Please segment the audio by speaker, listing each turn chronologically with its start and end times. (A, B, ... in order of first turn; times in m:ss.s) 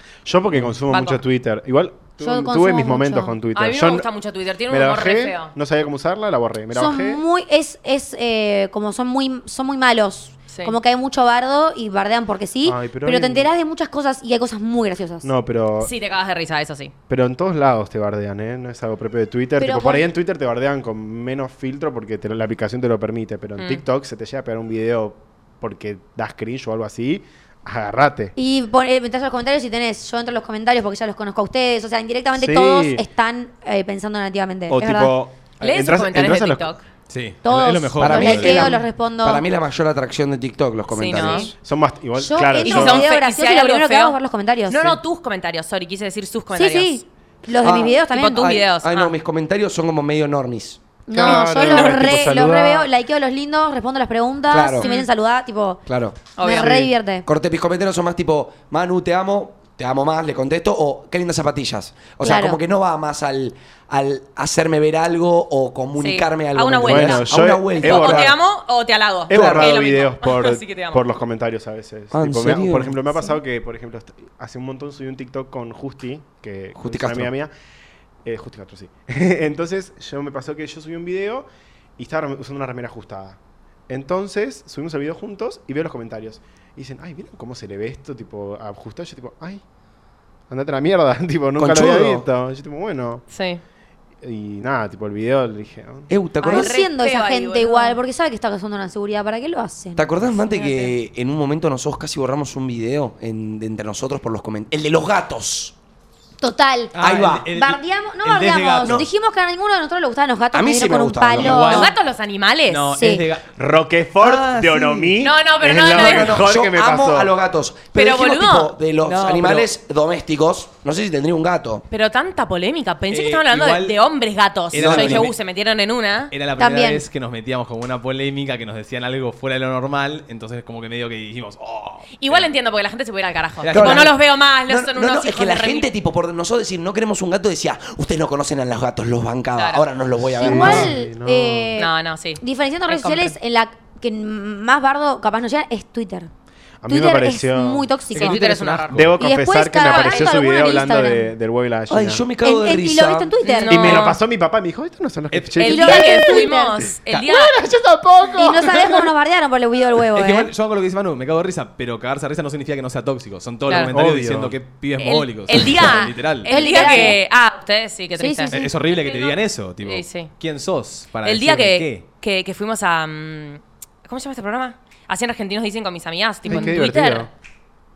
0:00.2-0:04.1 A
0:00.9-0:01.2 B
0:02.2-0:03.4 C
0:03.5-0:05.5 B
0:04.7-0:07.2 A
0:06.7-0:15.3 C
0:10.5-0:10.8 B
0:12.6-0:13.5 A
0:15.2-0:15.9 A
0:15.8-0:16.9 B
0:17.1-0:28.3 A
0:19.6-0:20.1 C
0:28.4-0:35.1 C
0:32.3-0:33.0 A
0:34.7-0:36.7 A
0:35.6-0:36.9 B
0:37.1-0:38.8 D
0:37.4-0:39.4 C
0:38.0-0:41.5 E
0:40.9-0:41.5 B
0:41.2-0:41.5 C
0:41.2-0:43.1 A
0:42.2-0:45.0 C
0:42.6-0:44.2 B
0:44.7-0:47.0 B
0:46.6-0:48.5 C
0:47.6-0:50.8 E
0:48.1-0:49.1 B
0:51.1-0:55.8 C
0:51.1-0:52.9 A
0:51.2-0:52.0 B
0:54.5-0:54.9 E
0:54.8-0:55.1 B
0:55.9-0:56.3 E
0:56.4-0:56.9 B
0:56.4-0:57.2 C
0:56.5-0:56.9 A
0:57.2-1:08.3 E
1:02.2-1:02.6 C
1:06.0-1:11.0 B
1:06.8-1:08.4 A
1:09.3-1:17.5 A
1:09.3-1:09.7 E
1:12.1-1:13.0 E
1:16.8-1:17.3 E
1:18.2-1:21.5 A
1:22.0-1:23.4 A
1:23.9-1:29.6 A
1:30.5-1:33.2 A
1:31.6-1:32.3 E
1:33.3-1:33.6 B
1:34.2-1:36.1 A
1:36.1-1:36.8 E
1:36.4-1:40.1 C
1:36.4-1:38.0 B
1:40.0-1:45.8 E
1:40.4-1:41.0 B
1:46.4-1:51.9 C
1:46.9-1:49.1 D
1:47.0-1:47.5 E
1:50.5-1:51.7 E
1:51.4-1:51.9 D
1:51.6-1:52.9 B
1:52.7-1:53.5 D
1:52.9-1:53.2 C
1:53.6-1:57.3 A
1:54.2-1:55.2 D
1:55.2-1:56.4 B
1:55.9-2:01.8 E
1:57.9-1:58.7 B
1:59.0-1:59.7 D
2:01.9-2:06.3 B
2:03.1-2:04.0 D
2:04.7-2:05.4 D
2:04.7-2:05.3 E
2:06.3-2:12.5 D
2:06.6-2:07.0 C
2:12.2-2:15.9 B
2:13.6-2:14.1 D
2:13.7-2:14.2 E
2:14.7-2:20.9 E
2:19.6-2:19.9 B
2:20.3-2:21.8 A
2:20.4-2:26.3 C
2:21.8-2:23.4 B
2:26.8-2:27.9 A
2:26.9-2:28.4 C
2:28.1-2:29.0 B
2:28.1-2:29.1 D
2:28.9-2:32.3 A
2:29.2-2:31.3 C
2:29.8-2:30.3 B
2:31.9-2:33.3 E
2:32.4-2:34.1 C
2:33.4-2:34.2 B
2:33.7-2:39.1 A
2:35.3-2:35.9 D
2:35.6-2:37.5 B
2:35.6-2:36.7 C
2:38.4-2:40.5 C
2:40.1-2:47.1 D
2:43.9-2:44.6 A
2:45.0-2:50.3 B
2:45.8-2:47.2 C
2:48.2-2:48.7 C
2:48.5-2:52.0 D
2:51.2-2:57.3 B
2:56.5-2:57.3 A
2:56.5-2:56.8 C